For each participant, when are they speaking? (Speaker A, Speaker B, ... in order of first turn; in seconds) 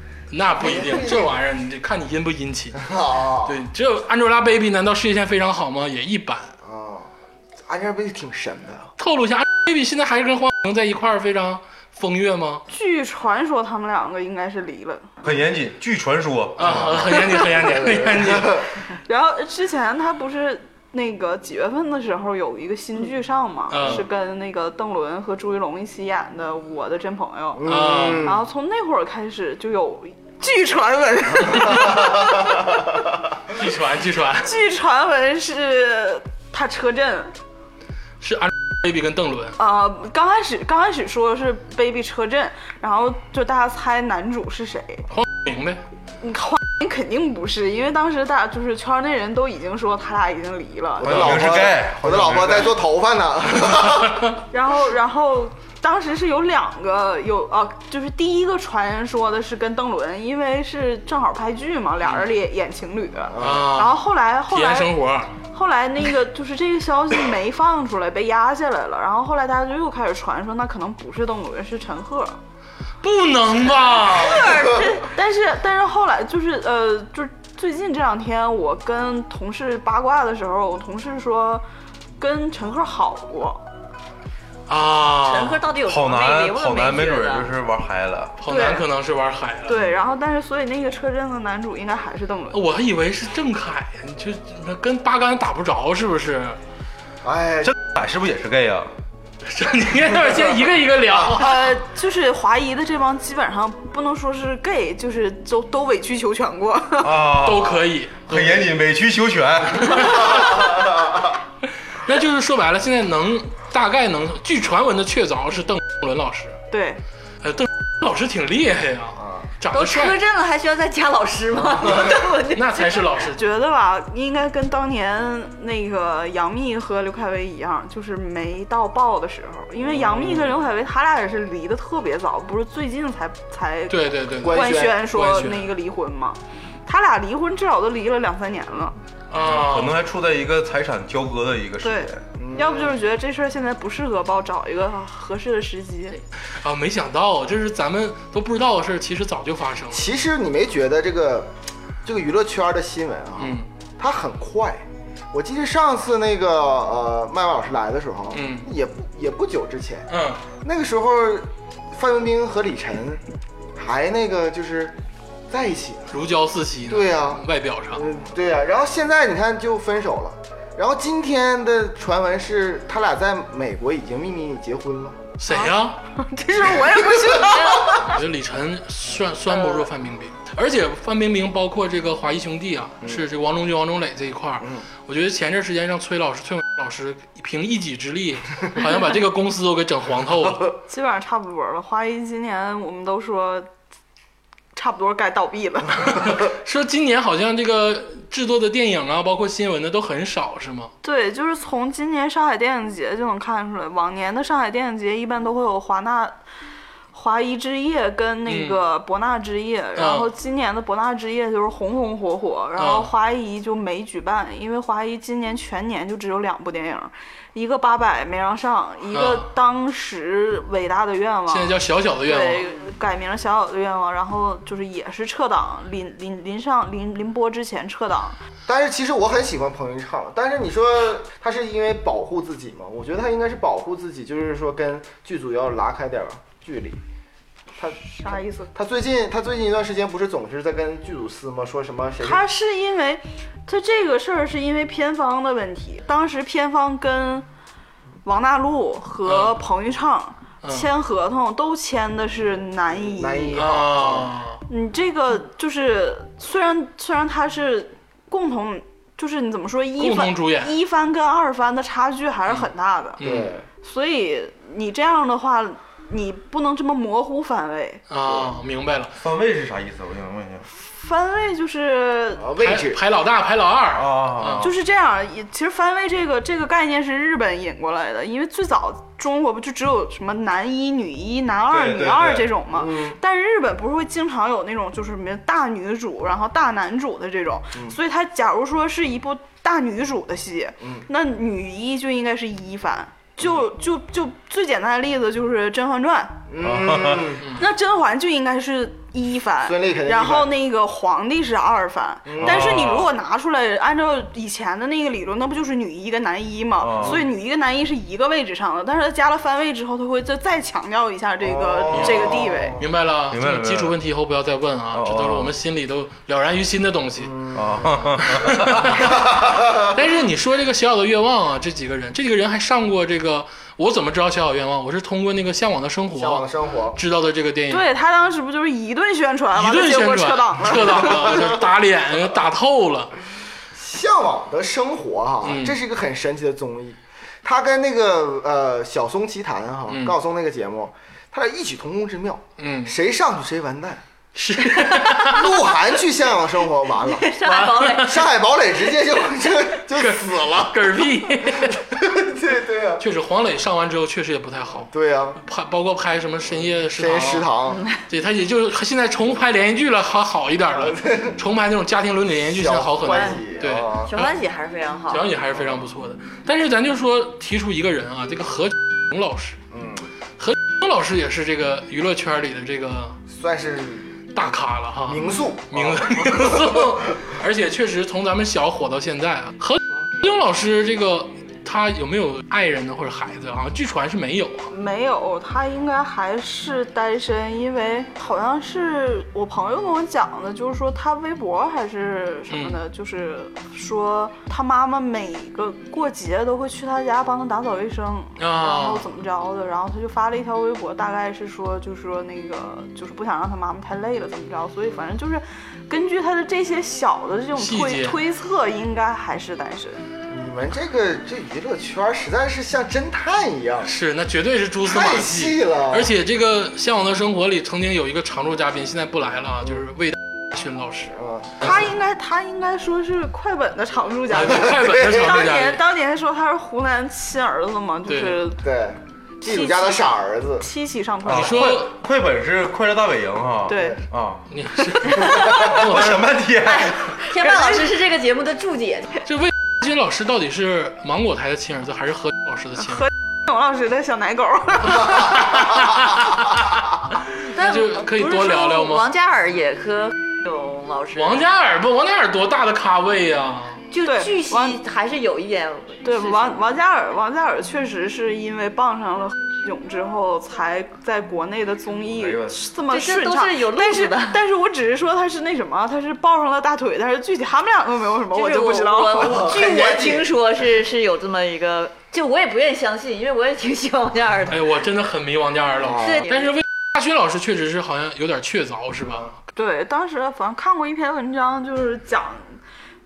Speaker A: 0.3-2.9, 3.5-6.5, 9.0-12.6, 16.6-18.7, 23.7-24.1, 27.6-28.4, 33.5-34.5, 38.2-39.6, 45.1-45.8, 63.4-65.4, 73.0-74.6, 84.7-85.6, 88.4-89.8, 92.5-96.6, 99.4-101.7, 107.4-108.7, 109.8-110.7, 112.0-116.6, 117.4-120.2, 121.8-123.4, 133.9-135.7, 139.3-140.0, 146.6-150.1, 153.4-153.7, 158.3-158.7, 160.1-160.4, 166.1-168.0, 175.4-176.0, 177.9-190.7, 196.1-200.9, 208.5-208.8, 210.0-210.3, 212.8-213.1, 219.1-219.5, 221.5-222.7, 249.2-249.6, 253.6-254.6, 260.0-260.7, 263.2-263.5, 268.1-269.1, 272.6-274.7, 311.9-317.4, 318.2-327.9, 329.5-333.1, 335.4-335.8, 339.9-340.2, 342.6-342.9, 344.4-345.6, 347.4-348.2, 349.9-352.0, 353.0-357.5, 358.1-364.3, 365.1-369.6, 370.4-373.2, 374.3-384.7, 392.5-392.8, 398.4-399.1, 407.6-408.2, 413.9-421.1, 424.3-425.8, 428.1-428.4, 431.3-431.9, 434.5-436.3, 439.2-443.1, 445.0-446.9, 447.6-449.1, 451.1-453.8, 474.5-479.3
Speaker B: 0.6-1.3, 2.8-3.6, 6.6-7.1, 7.6-8.9, 17.5-18.6, 27.6-28.4, 51.0-54.2, 63.3-63.7, 97.2-97.7, 119.2-119.5, 129.8-130.5, 134.4-135.1, 142.4-143.0, 149.9-151.5, 152.0-160.1, 160.6-163.2, 163.8-165.0, 165.5-166.2, 166.9-175.2, 228.7-237.0, 237.8-242.4, 252.9-254.3, 263.2-263.6, 272.4-273.0, 282.7-283.2, 296.5-297.4, 299.6-300.5, 302.3-302.7, 311.4-312.8, 317.3-318.2, 319.0-319.9, 326.1-327.0, 330.9-331.5, 333.7-344.0, 344.9-347.4, 347.9-350.9, 351.7-353.1, 354.8-355.4, 356.9-357.8, 360.7-361.4, 362.4-364.1, 369.7-370.1, 373.3-374.2, 375.1-376.9, 410.3-413.9, 414.8-416.1, 421.1-421.7, 424.7-425.2, 428.6-430.7, 469.1-470.3, 475.8-476.2
Speaker C: 12.7-15.1, 19.1-27.7, 28.2-32.7, 34.4-37.3, 39.6-45.1, 46.2-51.2, 54.5-64.9, 65.5-72.4, 75.0-81.6, 82.2-83.6, 88.5-88.8, 89.7-92.6, 101.3-107.3, 116.7-117.0, 123.3-139.0, 141.8-146.2, 175.5-178.2, 190.9-193.7, 194.8-196.2, 201.0-206.4, 207.1-228.4, 237.9-238.7, 242.2-247.5, 248.2-253.7, 254.7-263.2, 263.8-268.0, 270.7-272.5, 274.6-296.4, 297.6-312.8, 327.7-331.5, 384.7-410.0, 421.6-428.6, 429.4-430.1, 430.6-431.9, 433.7-434.0, 437.5-437.8, 442.8-445.5, 454.0-454.8, 456.0-469.4, 479.6-482.6
Speaker D: 15.2-17.3, 51.0-52.8, 85.8-88.4, 97.6-98.9, 107.0-110.5, 139.4-142.2, 269.2-270.7, 273.9-274.7, 281.7-282.5, 296.6-297.3, 302.4-303.1, 306.8-307.2, 313.3-314.0, 314.9-315.5, 317.5-319.1, 431.2-437.0, 462.2-462.7
Speaker E: 74.0-75.1, 85.2-87.5, 119.7-123.1, 347.0-348.2, 357.7-358.0, 363.1-363.4, 364.0-365.3, 436.6-439.2, 447.5-451.4, 453.9-456.7, 462.8-464.4, 468.3-474.8, 475.9-476.6